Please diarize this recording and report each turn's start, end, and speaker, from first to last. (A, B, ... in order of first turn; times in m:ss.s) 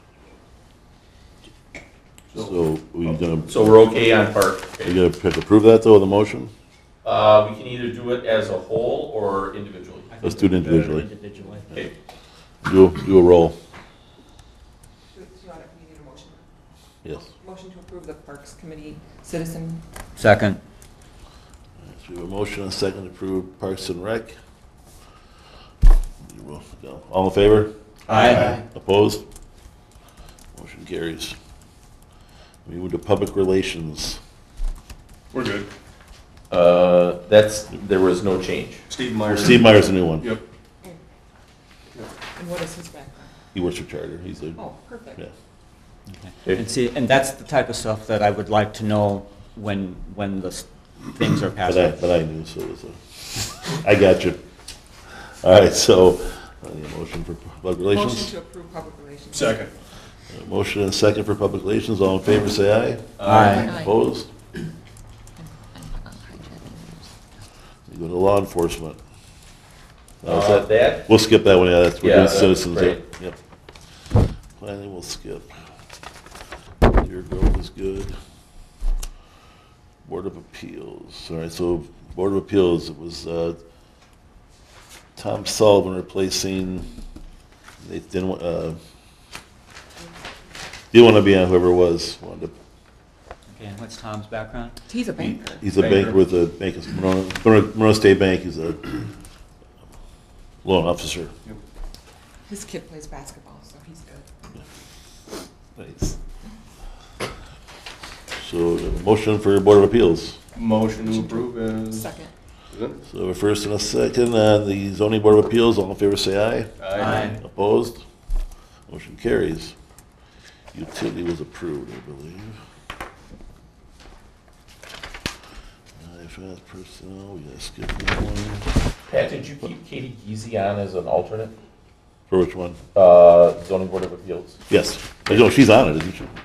0:02.3-0:03.8 A
0:03.5-0:05.0 B
0:04.8-0:06.5 A
0:07.0-0:10.1 B
0:10.1-0:11.9 C
0:10.2-0:11.1 A
0:12.6-0:13.6 A
0:15.1-0:16.4 D
0:17.1-0:19.8 D
0:20.2-0:20.6 C
0:21.8-0:24.3 A
0:26.2-0:29.2 A
0:28.1-0:28.6 C
0:28.1-0:28.5 E
0:30.5-0:31.4 A
0:32.6-0:34.2 A
0:35.3-0:35.7 E
0:36.5-0:38.9 B
0:38.9-0:40.4 E
0:39.3-0:40.3 A
0:42.3-0:43.3 D
0:43.5-0:44.6 A
0:44.6-0:45.2 D
0:46.1-0:52.0 C
0:51.6-0:53.0 A
0:53.7-0:54.4 A
0:55.4-0:58.3 A
0:57.9-0:59.7 D
0:59.3-0:59.7 E
1:00.3-1:04.3 A
1:03.2-1:03.6 E
1:03.2-1:03.7 C
1:03.5-1:04.0 D
1:05.4-1:07.1 D
1:07.9-1:09.0 A
1:10.2-1:13.4 A
1:10.2-1:11.0 B
1:12.0-1:13.0 B
1:14.6-1:15.5 A
1:16.8-1:18.1 A
1:20.0-1:23.6 A
1:25.2-1:26.9 A
1:27.8-1:28.8 A
1:30.9-1:32.5 A
1:33.5-1:34.7 C
1:34.9-1:35.6 D
1:35.2-1:39.0 A
1:35.7-1:36.2 E
1:40.6-1:41.3 A
1:42.5-1:44.3 D
1:45.8-1:46.2 A
1:48.4-1:50.4 A
1:50.5-1:52.1 E
1:51.0-1:52.3 D
1:52.7-1:53.0 E
1:53.0-1:58.0 A
1:56.8-1:57.4 E
1:57.0-1:57.4 C
1:58.9-1:59.7 A
2:00.7-2:02.6 A
2:06.0-2:08.7 A
2:09.1-2:11.5 B
2:12.3-2:12.8 A
2:12.9-2:14.6 B
2:14.7-2:16.3 A